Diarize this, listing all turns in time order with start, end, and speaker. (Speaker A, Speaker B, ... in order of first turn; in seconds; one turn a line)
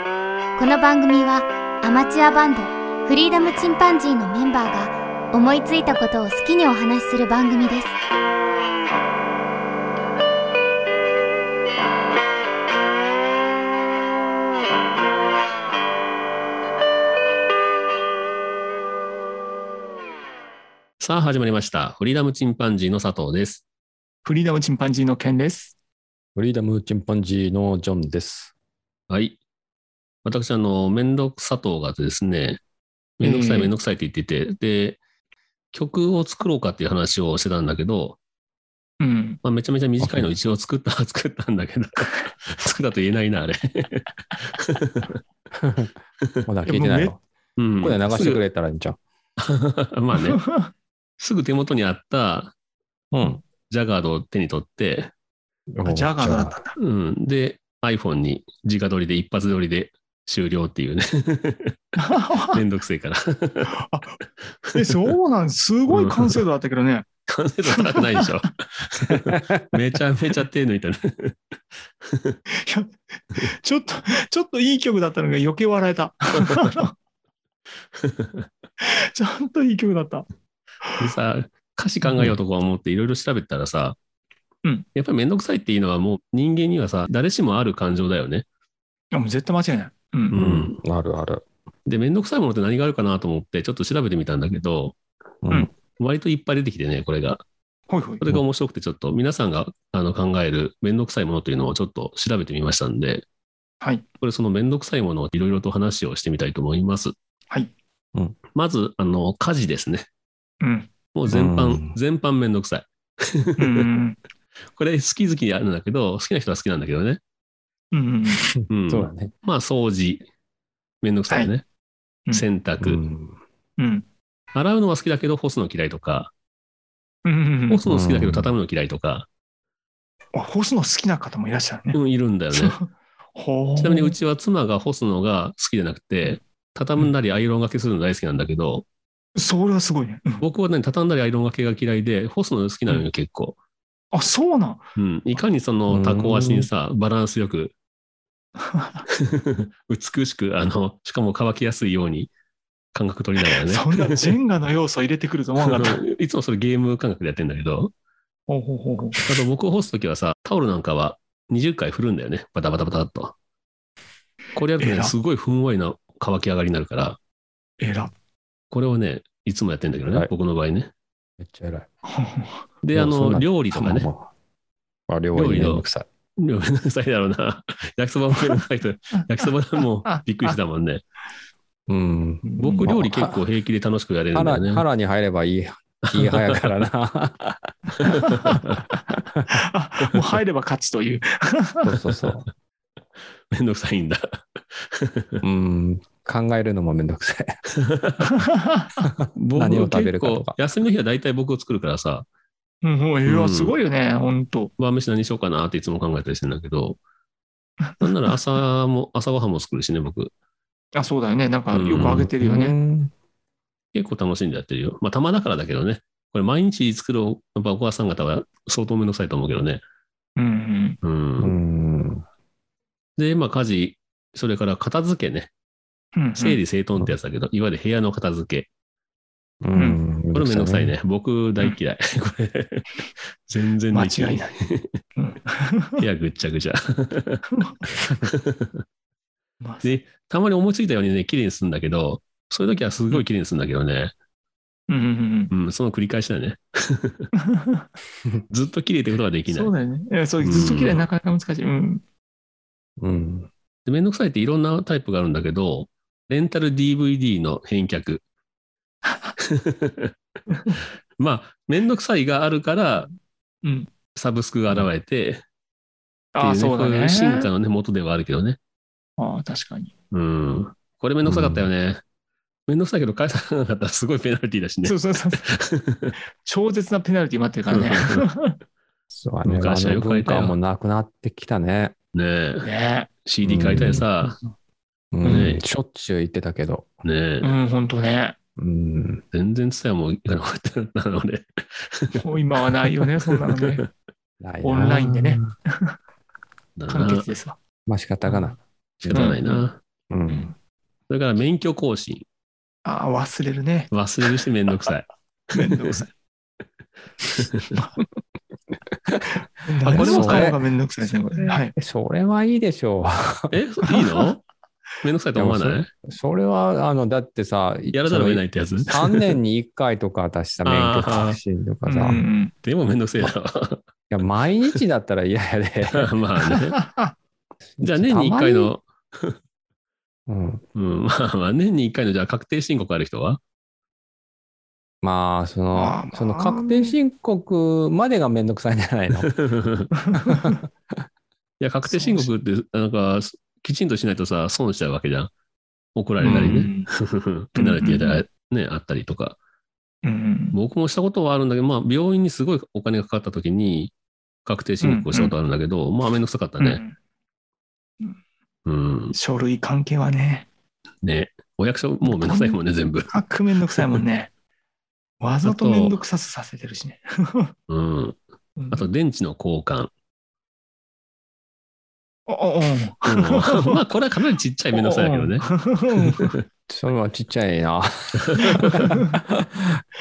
Speaker A: 0.6-7.9
Speaker B: 21.0-23.6
Speaker C: 24.2-25.7
Speaker D: 26.4-28.5
Speaker B: 29.1-29.4
Speaker B: 30.2-32.6
Speaker B: 33.2-35.0
Speaker C: 33.2-33.7
Speaker B: 35.7-38.2
Speaker C: 39.0-39.4
Speaker B: 39.4-45.1
Speaker D: 40.0-40.3
Speaker D: 45.6-45.9
Speaker D: 46.5-47.2
Speaker C: 46.6-47.1
Speaker B: 47.6-48.4
Speaker D: 47.8-49.0
Speaker B: 49.4-50.4
Speaker C: 50.2-50.7
Speaker B: 51.2-52.5
Speaker D: 53.1-53.4
Speaker B: 53.7-55.1
Speaker D: 55.7-56.6
Speaker C: 55.8-56.7
Speaker B: 56.8-61.8
Speaker C: 62.0-62.6
Speaker B: 62.5-63.7
Speaker C: 63.7-64.2
Speaker B: 64.7-64.9
Speaker C: 64.7-67.0
Speaker B: 65.9-66.4
Speaker B: 67.3-71.4
Speaker C: 67.6-68.3
Speaker D: 69.1-69.7
Speaker B: 72.0-72.4
Speaker C: 72.5-76.9
Speaker B: 78.0-78.5
Speaker C: 78.8-80.2
Speaker B: 81.0-84.0
Speaker C: 82.0-82.3
Speaker B: 84.9-88.4
Speaker C: 89.1-90.4
Speaker B: 90.3-90.8
Speaker D: 90.3-91.4
Speaker B: 91.8-95.0
Speaker D: 95.4-95.7
Speaker B: 96.0-97.4
Speaker C: 97.9-98.2
Speaker B: 98.2-103.2
Speaker B: 104.2-107.1
Speaker B: 108.5-110.1
Speaker C: 110.6-110.9
Speaker B: 111.1-113.8
Speaker D: 111.3-112.0
Speaker C: 113.6-114.2
Speaker B: 114.8-117.2
Speaker C: 117.9-118.4
Speaker D: 118.5-119.3
Speaker B: 118.7-120.3
Speaker B: 121.0-121.6
Speaker B: 122.3-123.0
Speaker D: 122.8-123.4
Speaker C: 123.8-124.0
Speaker B: 124.5-126.3
Speaker C: 127.2-127.8
Speaker B: 127.7-129.3
Speaker D: 127.8-128.5
Speaker C: 130.3-132.0
Speaker B: 131.9-132.8
Speaker C: 132.5-134.1
Speaker B: 133.8-138.8
Speaker C: 139.3-140.4
Speaker B: 140.4-143.6
Speaker C: 144.1-144.8
Speaker B: 144.9-147.7
Speaker D: 145.9-146.7
Speaker C: 148.6-149.0
Speaker B: 149.2-152.3
Speaker B: 152.9-154.3
Speaker C: 153.7-156.0
Speaker B: 155.6-157.9
Speaker C: 158.5-159.2
Speaker B: 159.2-163.3
Speaker B: 164.5-167.2
Speaker C: 164.8-165.1
Speaker C: 167.8-168.1
Speaker B: 168.7-170.9
Speaker D: 170.1-170.3
Speaker D: 171.4-171.9
Speaker C: 172.0-172.6
Speaker B: 172.8-174.1
Speaker D: 172.9-174.3
Speaker D: 175.1-176.1
Speaker B: 175.3-175.8
Speaker B: 176.4-181.0
Speaker C: 180.1-180.5
Speaker D: 181.9-183.4
Speaker C: 182.4-182.9
Speaker B: 182.6-184.8
Speaker D: 184.3-187.7
Speaker B: 186.1-186.7
Speaker C: 188.0-191.9
Speaker D: 191.8-192.5
Speaker B: 193.5-195.4
Speaker D: 195.4-197.6
Speaker B: 197.8-198.3
Speaker C: 198.2-199.1
Speaker D: 199.0-200.6
Speaker B: 199.4-202.2
Speaker C: 202.8-204.7
Speaker B: 203.2-203.8
Speaker B: 204.8-207.0
Speaker B: 208.0-210.3
Speaker C: 210.9-212.7
Speaker B: 211.7-212.3
Speaker D: 212.0-213.1
Speaker B: 213.9-219.8
Speaker C: 220.4-221.0
Speaker B: 221.0-221.5
Speaker D: 221.4-222.2
Speaker B: 223.2-225.5
Speaker C: 226.2-226.6
Speaker B: 226.4-228.7
Speaker D: 229.6-230.9
Speaker B: 230.3-235.0
Speaker C: 233.9-234.5
Speaker C: 235.2-236.0
Speaker B: 236.0-238.8
Speaker C: 237.5-237.8
Speaker C: 239.6-239.9
Speaker B: 239.8-244.1
Speaker C: 244.9-245.5
Speaker B: 245.5-247.3
Speaker C: 247.4-247.8
Speaker B: 248.5-249.7
Speaker C: 249.5-252.0
Speaker B: 250.4-251.0
Speaker D: 253.0-253.5
Speaker B: 253.8-258.2
Speaker B: 259.4-260.1
Speaker C: 260.5-260.8
Speaker B: 261.2-263.1
Speaker C: 263.6-263.9
Speaker B: 264.1-265.4
Speaker C: 266.3-267.5
Speaker B: 266.4-268.6
Speaker C: 269.2-269.9
Speaker B: 270.1-272.0
Speaker D: 271.2-271.7
Speaker B: 272.7-276.1
Speaker C: 274.8-275.5
Speaker C: 276.4-278.5
Speaker B: 277.7-278.2
Speaker D: 279.1-281.9
Speaker B: 279.4-280.5
Speaker B: 282.1-282.7
Speaker C: 282.6-283.1
Speaker B: 283.2-284.4
Speaker D: 283.4-284.1
Speaker D: 285.1-286.9
Speaker B: 285.2-285.6
Speaker B: 287.0-287.5
Speaker C: 287.4-288.4
Speaker D: 288.6-289.2
Speaker B: 289.3-293.9
Speaker C: 292.2-293.8
Speaker D: 294.4-295.5
Speaker C: 294.6-295.9
Speaker B: 296.8-297.3
Speaker C: 296.9-297.6
Speaker D: 297.9-299.4
Speaker C: 298.2-298.5
Speaker B: 299.0-299.8
Speaker C: 299.1-299.7
Speaker D: 300.1-300.5
Speaker B: 301.1-302.2
Speaker C: 302.8-304.4
Speaker B: 303.9-305.9
Speaker C: 305.5-306.1
Speaker B: 307.5-307.8
Speaker C: 309.6-311.7
Speaker D: 309.9-310.6
Speaker B: 309.9-310.6
Speaker D: 311.7-313.6
Speaker B: 313.5-314.4
Speaker B: 315.0-315.9
Speaker D: 315.3-322.2
Speaker B: 317.9-319.3
Speaker B: 320.6-321.4
Speaker C: 321.9-322.5
Speaker B: 322.6-323.8
Speaker D: 324.1-326.1
Speaker B: 325.9-326.8
Speaker C: 326.5-327.1
Speaker D: 327.8-328.7
Speaker B: 327.8-329.4
Speaker D: 330.3-330.6
Speaker B: 330.7-333.4
Speaker D: 335.0-339.3
Speaker C: 335.7-336.9
Speaker B: 339.2-339.9
Speaker C: 340.0-340.6
Speaker B: 341.6-345.3
Speaker C: 341.9-342.3
Speaker B: 345.9-349.4
Speaker C: 346.2-346.9
Speaker C: 347.6-348.2
Speaker C: 350.0-350.6
Speaker B: 350.5-353.9
Speaker B: 354.4-356.8
Speaker C: 354.8-355.3
Speaker C: 356.6-356.9
Speaker B: 358.6-359.1
Speaker C: 359.1-360.5
Speaker B: 361.0-363.2
Speaker C: 362.0-362.6
Speaker C: 363.1-364.3
Speaker C: 365.2-367.5
Speaker B: 365.4-366.0
Speaker B: 367.7-368.2
Speaker C: 368.6-368.8
Speaker B: 368.7-369.9
Speaker C: 372.3-373.8
Speaker B: 373.1-375.5
Speaker C: 374.7-376.3
Speaker B: 376.1-376.4
Speaker D: 376.7-379.8
Speaker B: 378.2-378.9
Speaker C: 378.4-379.2